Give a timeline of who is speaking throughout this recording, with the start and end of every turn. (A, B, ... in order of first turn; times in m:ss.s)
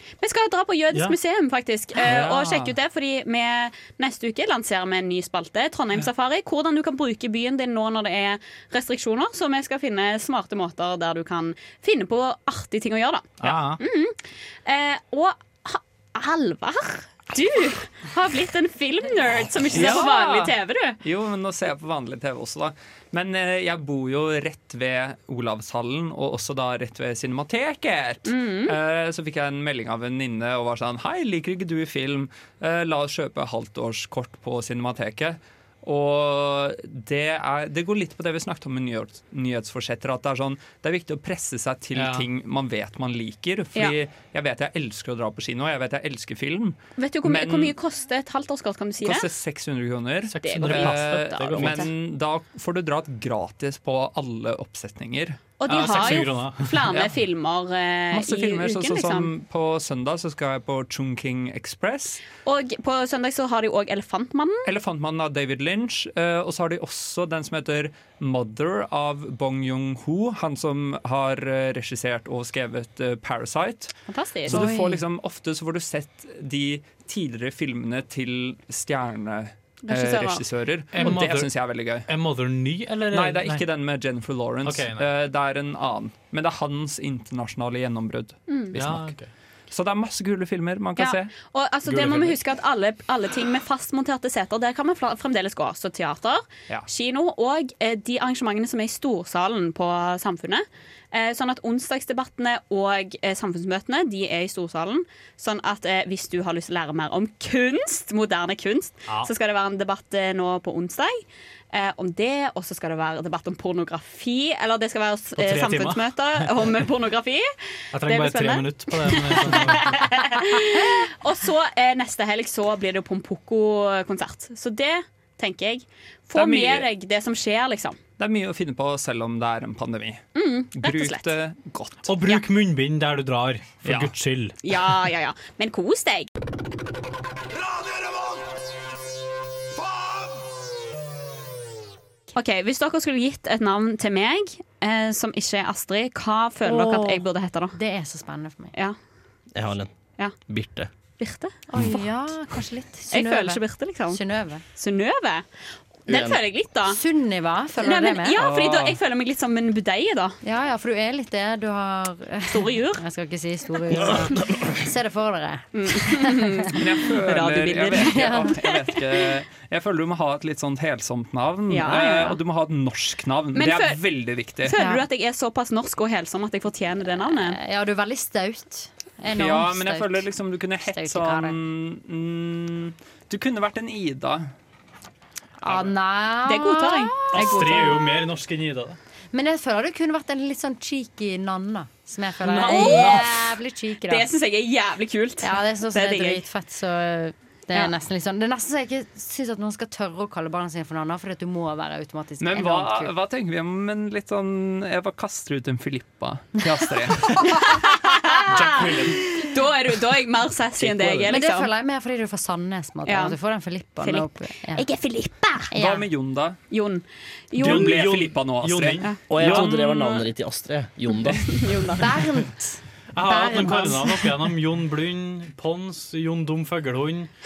0:00.2-0:21.0 A
0:13.4-0:13.8 B
0:19.7-0:47.7 C
0:28.2-0:28.8 A
0:41.9-0:42.2 B
0:47.0-0:49.3 A
0:49.0-0:56.2 C
0:50.3-0:51.9 B
0:50.4-0:51.9 A
0:55.6-0:59.3 A
0:55.7-0:56.9 B
0:58.1-1:02.2 C
1:02.4-1:04.7 A
1:04.6-1:13.9 C
1:14.1-1:14.6 A
1:14.5-1:22.1 C
1:14.5-1:15.0 D
1:19.8-1:20.4 A
1:20.9-1:21.5 B
1:22.1-1:23.6 B
1:23.1-1:29.1 C
1:24.6-1:25.0 B
1:28.5-1:28.7 A
1:28.7-1:29.3 B
1:29.7-1:31.3 C
1:31.0-1:57.5 A
1:31.9-1:32.3 B
1:55.4-1:56.7 B
1:57.9-2:00.3 B
1:58.0-2:08.0 A
2:06.3-2:06.9 C
2:08.2-2:12.1 C
2:10.3-2:11.3 A
2:12.1-2:14.6 B
2:13.8-2:14.1 C
2:14.6-2:16.3 A
2:22.3-2:27.8 A
2:26.6-2:28.7 D
2:29.5-2:29.9 E
2:30.5-2:30.9 E
2:31.2-2:32.0 A
2:31.7-2:34.6 D
2:33.1-2:34.2 A
2:34.7-2:35.4 A
2:36.0-2:37.0 A
2:36.1-2:36.4 E
2:36.8-2:38.4 D
2:37.8-2:40.4 A
2:38.4-2:39.0 C
2:40.4-2:46.6 D
2:42.5-2:43.0 A
2:44.1-2:44.7 E
2:45.7-2:48.7 A
2:46.7-2:54.8 C
2:48.0-2:48.6 D
2:51.7-2:52.4 A
2:53.5-2:54.0 A
2:54.6-2:57.6 A
2:54.7-2:55.0 D
2:57.4-3:00.3 D
2:59.3-3:04.5 C
3:00.8-3:01.6 D
3:05.6-3:08.1 D
3:06.4-3:08.0 A
3:07.3-3:09.0 B
3:09.3-3:14.3 D
3:12.5-3:13.2 B
3:12.5-3:13.6 A
3:14.1-3:16.4 A
3:15.4-3:23.1 D
3:22.4-3:27.6 C
3:27.2-3:28.3 D
3:27.4-3:31.7 A
3:28.5-3:29.2 B
3:31.3-3:34.9 D
3:33.0-3:33.4 A
3:34.0-3:35.7 A
3:35.6-3:36.1 D
3:35.7-3:36.6 C
3:36.7-3:37.9 A
3:37.6-3:39.8 B
3:37.6-3:40.2 C
3:39.3-3:41.6 E
3:41.4-3:42.1 A
3:42.0-3:44.3 D
3:43.1-3:47.3 B